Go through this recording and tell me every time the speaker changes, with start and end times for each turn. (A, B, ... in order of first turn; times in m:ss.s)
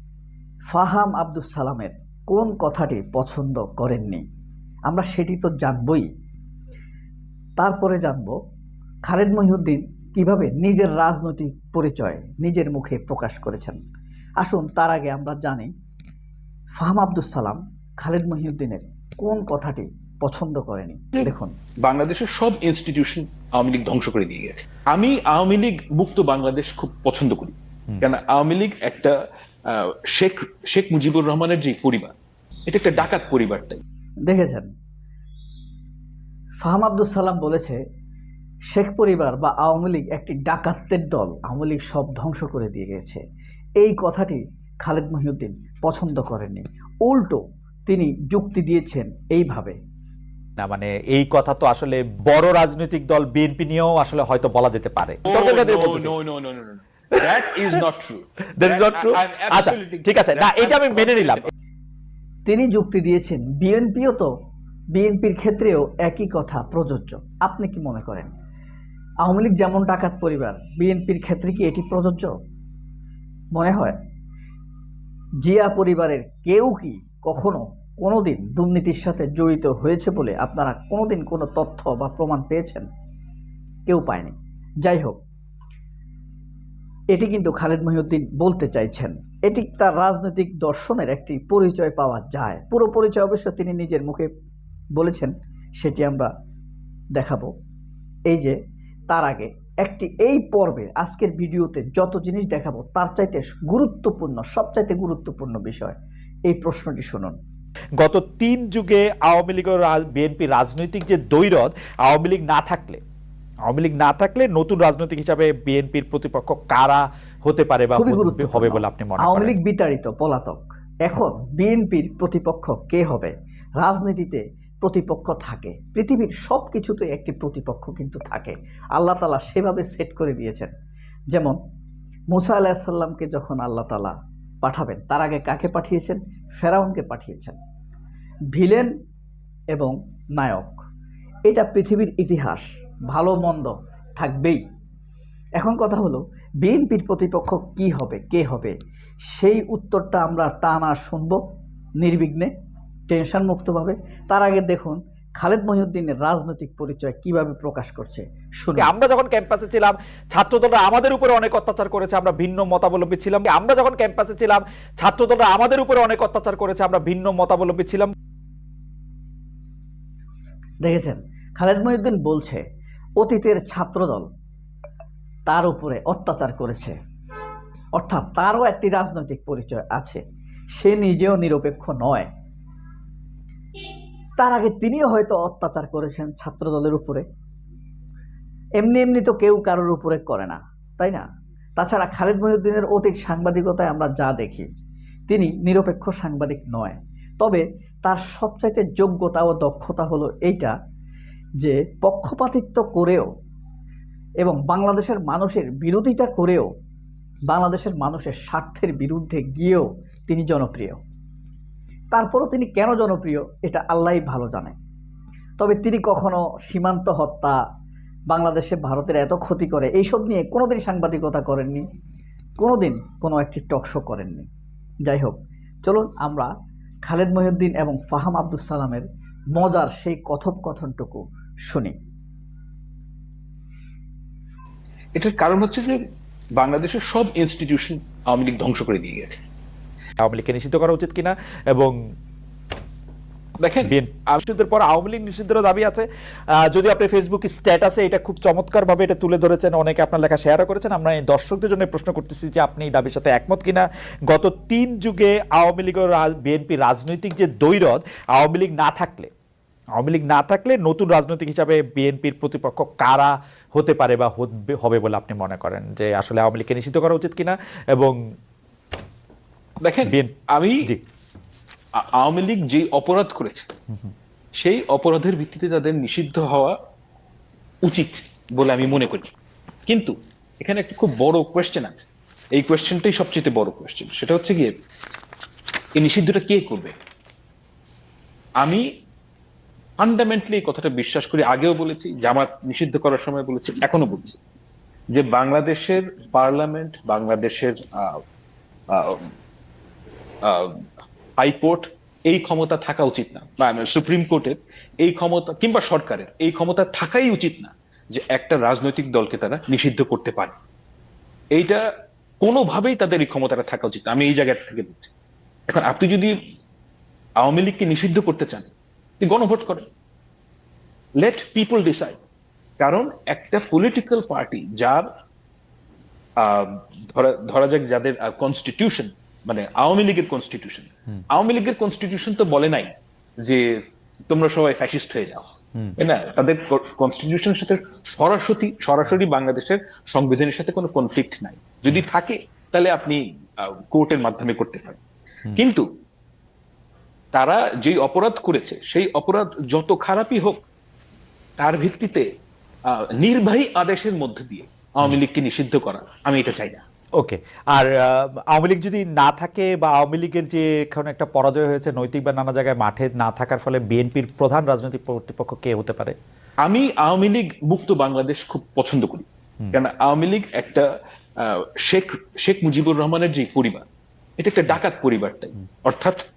0:00.7-0:04.2 A
0:04.9-0:06.1 A
0:07.6-0:08.3 A
0:09.1-0:13.8 A
0:14.4-0:15.7 A
0:16.8-0:21.5 A
0:21.8-0:32.1 B
0:32.7-0:33.8 B
0:34.2-0:34.7 A
0:36.6-0:37.8 A
0:38.7-0:43.2 A
0:43.8-0:49.8 A
0:50.6-0:56.1 C
0:55.2-1:01.5 B
0:58.6-1:01.5 C
1:02.4-1:04.3 A
1:04.9-1:08.3 A
1:09.2-1:12.3 A
1:13.6-1:14.0 A
1:15.4-1:22.9 A
1:23.9-1:25.2 A
1:27.1-1:34.3 A
1:35.0-1:36.3 A
1:37.2-1:37.5 A
1:38.3-1:38.5 A
1:39.1-1:46.0 A
1:46.5-1:47.3 A
1:48.0-1:53.0 C
1:53.7-1:59.5 C
1:57.9-2:10.7 A
2:11.3-2:11.6 A
2:12.3-2:17.6 A
2:18.5-2:18.9 A
2:19.7-2:20.8 A
2:21.5-2:24.6 A
2:25.6-2:28.7 A
2:29.3-2:31.4 A
2:32.0-2:32.5 A
2:33.1-2:38.9 A
2:38.8-2:48.1 C
2:50.8-2:52.6 A
2:53.2-2:54.3 A
2:55.5-2:56.9 A
2:58.0-3:00.2 A
3:00.8-3:02.3 A
3:04.4-3:07.2 A
3:08.8-3:11.2 A
3:11.8-3:14.7 A
3:15.3-3:20.7 A
3:21.6-3:23.3 A
3:24.4-3:26.7 A
3:27.5-3:31.0 A
3:32.1-3:34.8 A
3:35.6-3:37.6 A
3:38.3-3:41.8 A
3:42.6-3:44.5 A
3:45.0-3:46.5 A
3:47.1-3:49.0 A
3:49.6-3:51.9 A
3:55.2-3:56.0 B
3:56.6-3:59.4 B
4:00.2-4:01.9 C
4:03.6-4:04.4 B
4:03.8-4:06.0 C
4:06.6-4:19.3 C
4:20.0-4:28.2 C
4:29.8-4:30.8 B
4:30.0-4:30.3 C
4:32.0-4:33.7 B
4:34.6-4:36.8 B
4:37.8-4:39.3 B
4:39.9-4:44.8 B
4:46.0-4:46.9 B
4:48.6-4:48.8 B
4:50.0-4:54.4 B
4:55.1-4:58.2 B
4:58.9-4:59.3 B
5:00.4-5:00.8 B
5:01.4-5:10.5 B
5:11.5-5:11.8 B
5:12.4-5:15.1 B
5:15.7-5:16.4 B
5:17.4-5:19.9 B
5:21.2-5:22.2 B
5:22.8-5:25.1 B
5:26.4-5:45.0 B
5:45.5-5:45.8 B
5:47.3-5:50.6 B
5:51.6-5:52.2 B
5:52.9-5:56.8 B
5:57.2-6:06.1 C
6:06.6-6:13.8 B
6:14.4-6:16.2 B